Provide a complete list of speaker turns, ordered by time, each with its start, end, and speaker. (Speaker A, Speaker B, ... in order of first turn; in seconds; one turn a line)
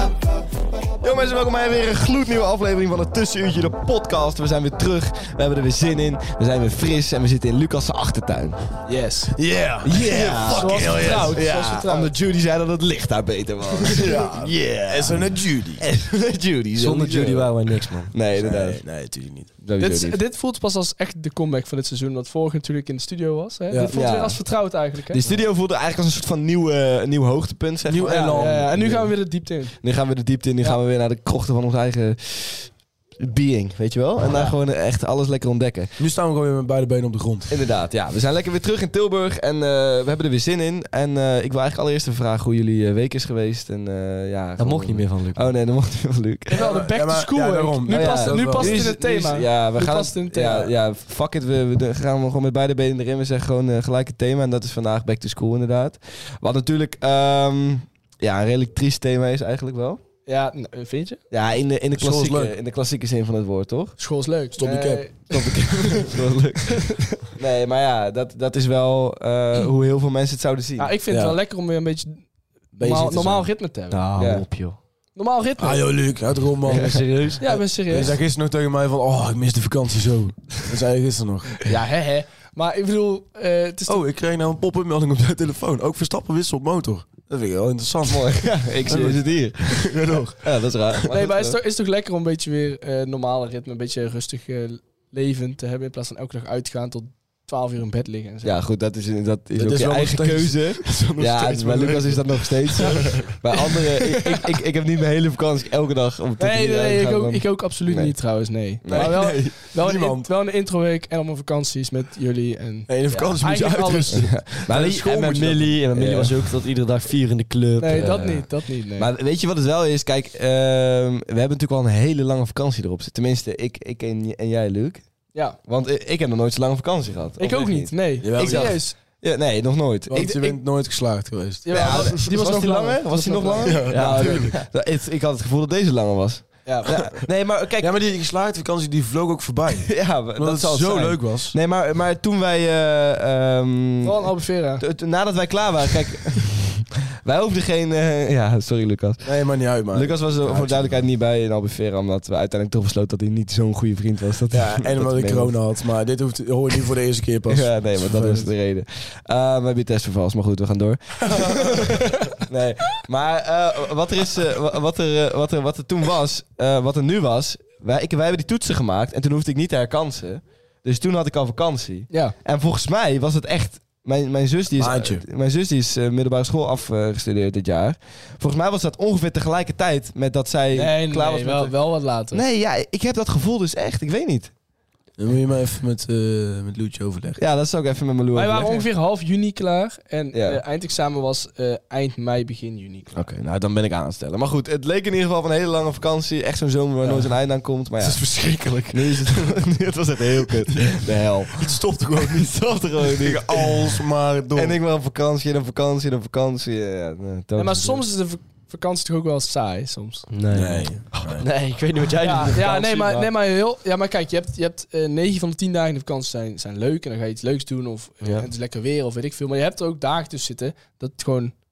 Speaker A: 1.0-8.6
Speaker B: 8.9-9.3
Speaker C: 9.3-11.4
Speaker A: 9.8-18.8
Speaker B: 10.5-12.1
Speaker C: 13.8-15.8
Speaker D: 16.8-18.1
Speaker C: 18.3-19.5
Speaker A: 19.6-20.2
Speaker B: 19.8-25.3
Speaker A: 23.8-24.4
Speaker A: 25.1-28.7
Speaker C: 27.9-29.1
Speaker B: 28.0-29.8
Speaker A: 29.8-36.0
Speaker C: 36.0-37.5
Speaker A: 37.5-46.6
Speaker D: 44.6-45.5
Speaker B: 46.5-50.7
Speaker C: 46.5-48.9
Speaker A: 47.9-60.0
Speaker B: 60.3-61.2
Speaker A: 61.3-64.0
Speaker C: 62.0-62.5
Speaker B: 64.0-66.1
Speaker C: 64.6-65.6
Speaker A: 65.3-71.3
Speaker B: 66.9-67.2
Speaker B: 70.8-72.3
Speaker C: 72.8-73.5
Speaker B: 72.8-74.0
Speaker D: 73.9-74.8
Speaker A: 74.2-74.5
Speaker B: 75.2-75.9
Speaker C: 75.6-81.7
Speaker D: 76.6-77.4
Speaker B: 77.4-78.2
Speaker B: 81.7-84.0
Speaker C: 83.9-90.6
Speaker A: 88.0-91.6
Speaker B: 91.1-98.6
Speaker A: 98.4-109.5
Speaker C: 99.6-103.1
Speaker B: 106.4-114.3
Speaker C: 108.9-110.3
Speaker C: 112.9-115.7
Speaker A: 113.1-113.3
Speaker A: 114.1-116.4
Speaker D: 115.0-118.4
Speaker B: 117.8-119.1
Speaker A: 117.9-125.0
Speaker A: 125.6-130.6
Speaker B: 127.4-129.0
Speaker C: 128.2-128.8
Speaker C: 130.1-132.2
Speaker B: 131.7-134.1
Speaker A: 131.7-137.9
Speaker C: 133.6-134.5
Speaker D: 133.9-134.6
Speaker B: 136.7-136.9
Speaker C: 137.8-141.6
Speaker A: 139.8-149.3
Speaker B: 144.0-144.8
Speaker C: 149.2-151.0
Speaker A: 149.9-155.6
Speaker C: 154.5-158.5
Speaker A: 157.5-181.7
Speaker B: 172.1-172.3
Speaker C: 174.8-175.2
Speaker B: 180.7-182.4
Speaker A: 182.3-184.5
Speaker C: 185.2-187.4
Speaker A: 187.4-188.8
Speaker B: 188.3-193.2
Speaker A: 190.3-190.6
Speaker A: 193.1-198.2
Speaker C: 197.0-197.3
Speaker C: 198.0-199.5
Speaker A: 198.9-208.0
Speaker C: 201.6-204.8
Speaker B: 207.6-210.3
Speaker D: 210.3-213.3
Speaker C: 210.5-211.4
Speaker B: 212.2-221.6